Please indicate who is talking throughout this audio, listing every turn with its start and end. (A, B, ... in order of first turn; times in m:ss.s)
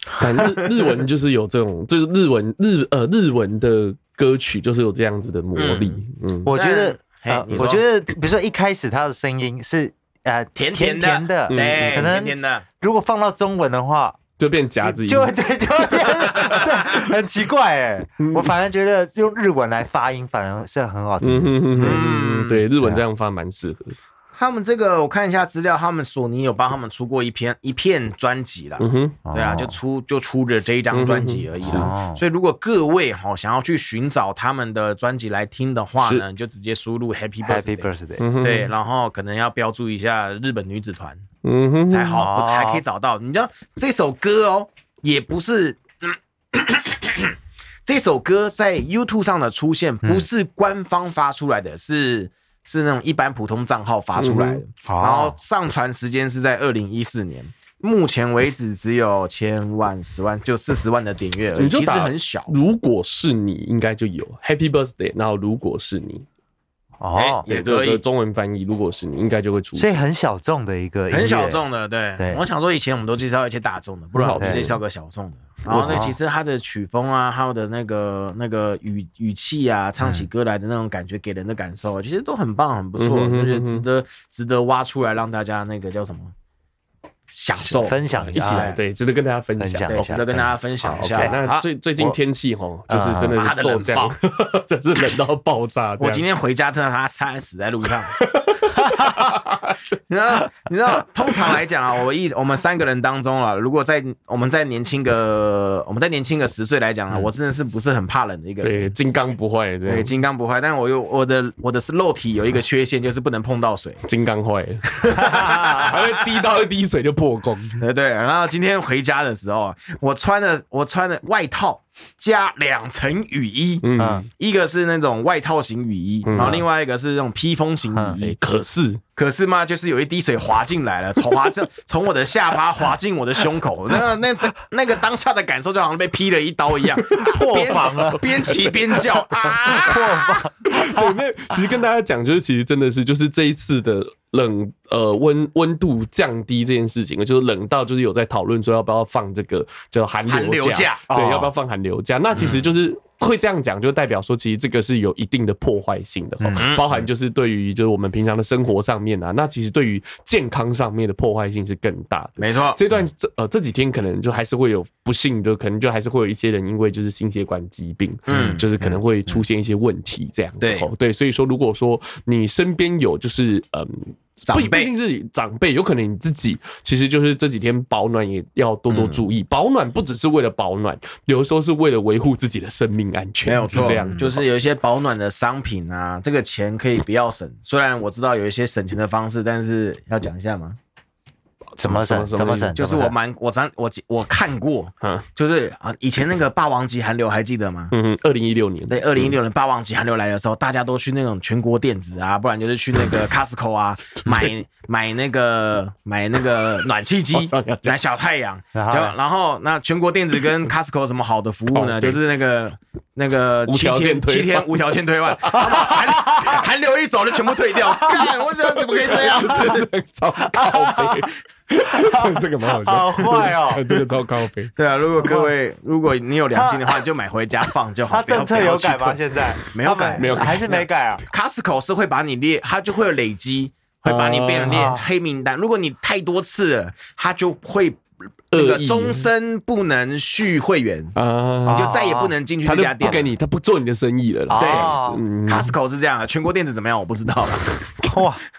0:00.2-0:06.5 A
0:00.4-0:00.7 B
0:05.5-0:07.8 B
0:06.4-0:14.2 C
0:10.6-0:12.6 B
0:11.5-0:12.1 A
0:14.4-0:15.4 A
0:14.8-0:22.0 C
0:16.3-0:16.6 A
0:18.2-0:18.5 A
0:21.2-0:24.0 A
0:21.8-0:22.6 B
0:24.3-0:41.2 B
0:28.8-0:29.2 A
0:29.2-0:29.8 C
0:30.9-0:31.9 A
0:31.6-0:32.2 C
0:37.4-0:38.2 C
0:38.2-0:38.7 A
0:41.4-0:42.2 A
0:41.9-1:02.5 B
0:42.2-0:42.8 C
0:54.2-0:54.6 A
0:54.8-0:55.3 C
1:01.6-1:06.2 A
1:07.0-1:07.4 C
1:07.2-1:08.0 B
1:07.4-1:10.0 A
1:09.7-1:11.6 C
1:11.1-1:26.3 B
1:14.1-1:14.8 A
1:15.6-1:16.0 A
1:15.7-1:16.2 C
1:23.0-1:23.8 A
1:27.3-1:28.8 B
1:27.6-1:28.8 C
1:28.3-1:30.2 A
1:29.6-1:30.4 C
1:29.9-1:31.6 B
1:30.8-1:36.2 A
1:32.9-1:33.4 C
1:33.3-1:34.2 B
1:36.0-1:38.1 B
1:38.1-1:39.9 A
1:40.1-1:48.9 B
1:48.6-1:50.1 A
1:49.9-1:54.0 B
1:54.0-1:57.8 A
1:55.0-1:56.0 B
1:57.8-2:08.3 B
2:03.8-2:04.2 A
2:04.0-2:04.2 C
2:06.2-2:06.6 A
2:06.3-2:06.6 C
2:08.2-2:09.0 A
2:09.2-2:20.4 B
2:17.2-2:18.2 C
2:18.2-2:19.9 A
2:19.8-2:21.2 C
2:20.6-3:04.4 A
2:30.3-2:31.0 B
2:31.1-2:31.5 C
2:36.4-2:36.7 C
2:36.6-2:36.9 B
2:42.4-2:42.8 B
2:48.3-2:48.6 B
2:48.3-2:49.4 C
2:50.6-2:50.9 B
2:54.4-2:54.9 B
2:58.9-2:59.2 B
3:03.4-3:10.8 B
3:03.7-3:04.3 C
3:11.8-3:12.8 A
3:11.8-3:13.1 C
3:12.7-3:17.9 B
3:17.9-3:19.3 A
3:18.9-3:39.8 B
3:24.2-3:24.5 A
3:27.3-3:28.0 A
3:28.7-3:29.1 C
3:31.7-3:32.2 A
3:33.6-3:34.7 A
3:35.4-3:36.0 A
3:39.0-3:44.7 A
3:40.5-3:41.1 C
3:42.0-3:44.0 C
3:44.8-3:50.6 B
3:46.5-3:47.0 C
3:48.1-3:51.2 C
3:50.2-3:50.8 A
3:51.3-4:01.1 B
3:54.0-3:54.9 A
3:54.6-3:55.0 C
3:58.5-3:59.3 A
4:01.2-4:01.9 A
4:01.6-4:02.3 C
4:01.7-4:03.3 B
4:02.6-4:05.7 A
4:04.5-4:05.2 C
4:04.5-4:07.7 B
4:08.1-4:08.4 C